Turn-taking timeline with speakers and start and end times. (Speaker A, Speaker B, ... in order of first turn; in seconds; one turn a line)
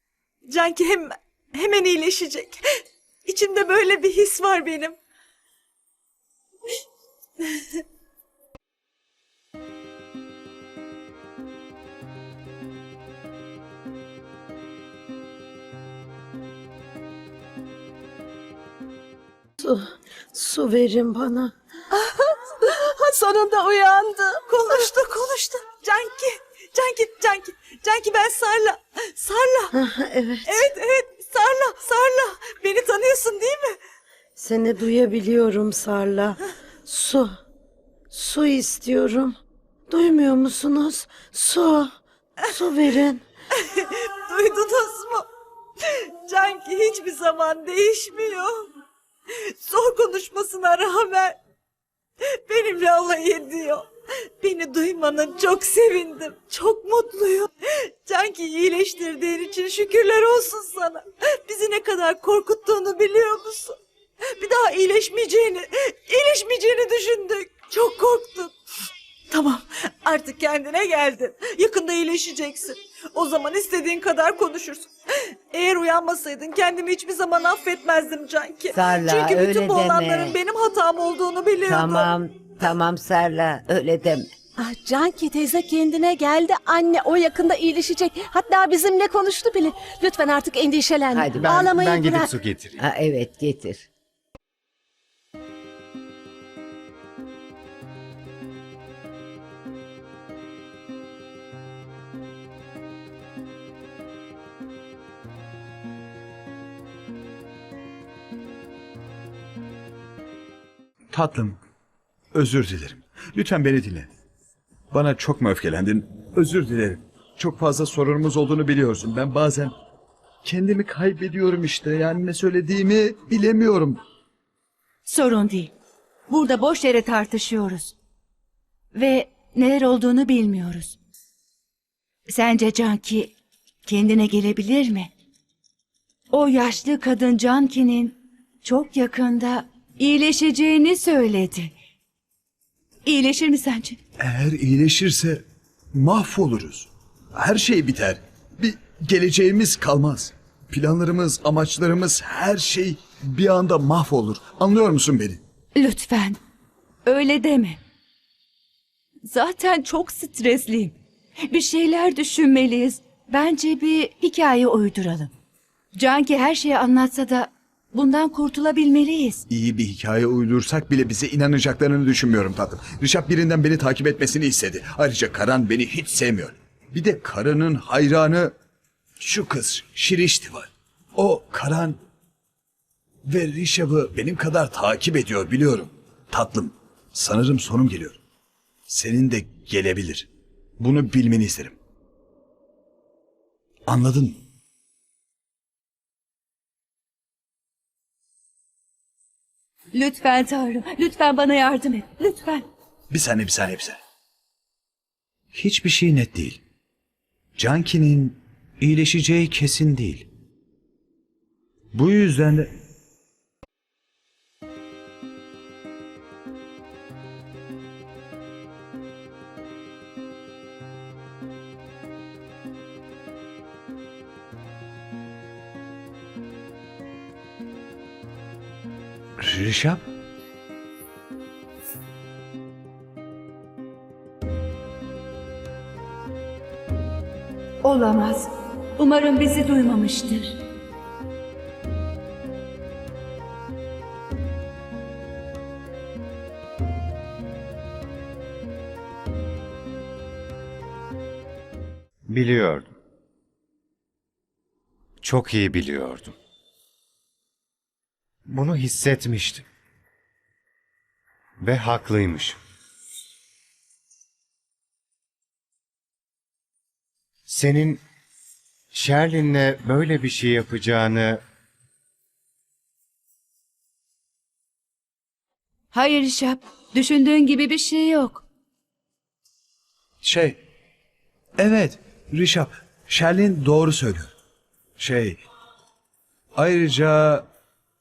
Speaker A: 0.5-2.6
Speaker A: 3.2-5.0
Speaker B: 19.6-21.5
Speaker B: 23.1-24.0
Speaker C: 23.2-24.2
Speaker A: 24.5-29.7
Speaker B: 29.7-30.7
Speaker A: 30.4-33.8
Speaker B: 34.4-37.3
Speaker B: 38.1-39.4
Speaker B: 39.9-41.9
Speaker B: 42.5-43.2
Speaker A: 43.6-45.3
Speaker A: 45.8-48.6
Speaker A: 49.4-51.4
Speaker A: 52.5-53.9
Speaker A: 54.4-63.8
Speaker A: 64.4-68.5
Speaker A: 69.3-74.9
Speaker A: 75.5-82.1
Speaker D: 78.7-80.4
Speaker D: 81.7-84.3
Speaker C: 84.6-92.3
Speaker E: 91.4-92.8
Speaker D: 92.8-93.8
Speaker F: 111.1-111.6
Speaker F: 112.3-114.1
Speaker F: 114.9-119.7
Speaker F: 120.4-124.0
Speaker G: 125.0-125.7
Speaker G: 126.3-127.9
Speaker G: 128.9-130.9
Speaker G: 132.3-133.3
Speaker G: 133.8-135.1
Speaker G: 136.3-141.7
Speaker G: 143.0-144.0
Speaker F: 144.2-145.4
Speaker F: 145.9-155.4
Speaker G: 155.8-156.4
Speaker G: 157.0-157.8
Speaker G: 159.3-160.9
Speaker G: 161.5-165.3
Speaker G: 165.9-169.4
Speaker F: 169.5-178.5
Speaker F: 179.2-182.0
Speaker F: 183.3-188.2
Speaker F: 188.9-190.3
Speaker F: 190.8-191.8
Speaker F: 193.9-194.4
Speaker G: 199.9-202.6
Speaker F: 203.1-204.0
Speaker F: 205.5-206.6
Speaker F: 207.6-210.2
Speaker F: 211.9-212.7
Speaker F: 229.4-230.0
Speaker G: 237.8-240.5
Speaker E: 252.3-252.9
Speaker E: 255.2-256.3
Speaker E: 258.5-259.6
Speaker E: 261.6-262.6
Speaker E: 267.5-268.0
Speaker E: 268.9-271.4
Speaker G: 275.9-278.4
Speaker F: 280.2-280.6
Speaker F: 281.6-284.3
Speaker F: 285.0-285.4
Speaker F: 286.6-287.4